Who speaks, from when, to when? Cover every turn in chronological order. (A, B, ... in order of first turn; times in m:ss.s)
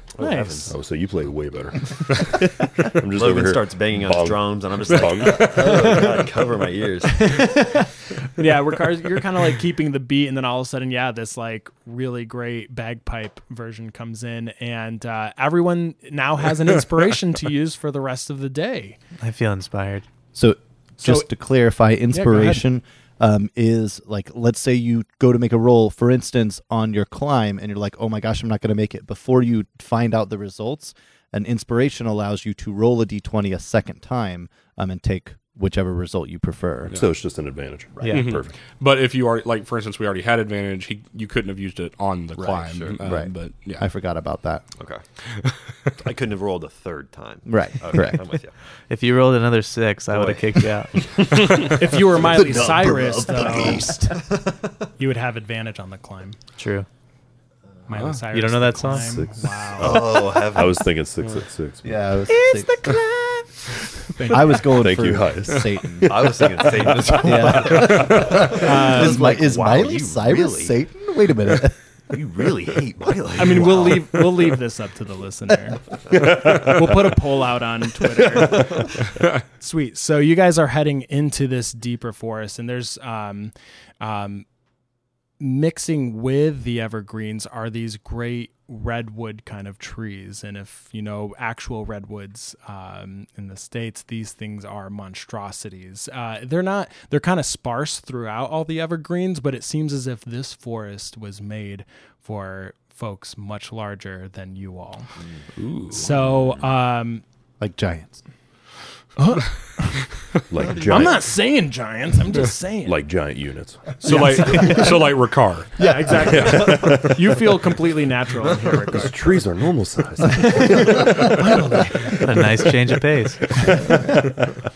0:00.2-0:00.7 A
0:00.2-0:00.7 B
0:00.7-0:05.9 C
0:03.1-0:07.5 A
0:05.5-0:06.2 B
0:07.0-0:19.0 B
0:19.2-0:20.0 D
0:20.3-0:37.0 E
0:21.0-0:21.3 B
0:22.1-0:22.6 B
0:36.9-0:38.5 C
0:38.1-0:43.8 F
0:42.4-0:43.0 A
0:43.0-0:44.6 E
0:45.3-0:45.9 F
0:46.0-0:48.6 A
0:47.4-0:48.2 E
0:48.9-0:50.9 D
0:50.1-0:51.7 A
0:51.6-0:53.9 B
0:52.0-0:54.2 E
0:52.4-0:52.7 A
0:53.3-0:54.6 A
0:55.0-0:56.4 B
0:56.6-0:56.9 D
0:57.9-1:00.2 B
0:58.3-0:59.3 D
0:59.0-1:01.9 C
0:59.8-1:00.9 A
1:01.8-1:02.9 E
1:02.3-1:03.4 D
1:04.1-1:04.6 B
1:04.3-1:11.8 E
1:04.6-1:05.7 C
1:06.0-1:10.8 A
1:08.5-1:09.2 B
1:12.1-1:14.2 A
1:13.4-1:24.4 B
1:25.4-1:45.1 B
1:45.6-1:46.1 F
1:45.9-1:47.2 B
1:47.6-1:48.2 E
1:49.2-1:50.0 B
1:50.5-1:51.3 C
1:50.6-1:51.1 A
1:50.8-1:53.0 B
1:52.8-1:53.9 C
1:54.0-1:55.7 F
1:54.0-1:55.0 B
1:54.6-1:54.9 E
1:55.8-1:59.4 B
1:56.0-1:56.6 E
1:56.3-1:57.1 C
1:58.9-2:01.0 C
2:00.3-2:02.6 B
2:02.2-2:03.6 D
2:03.6-2:04.1 B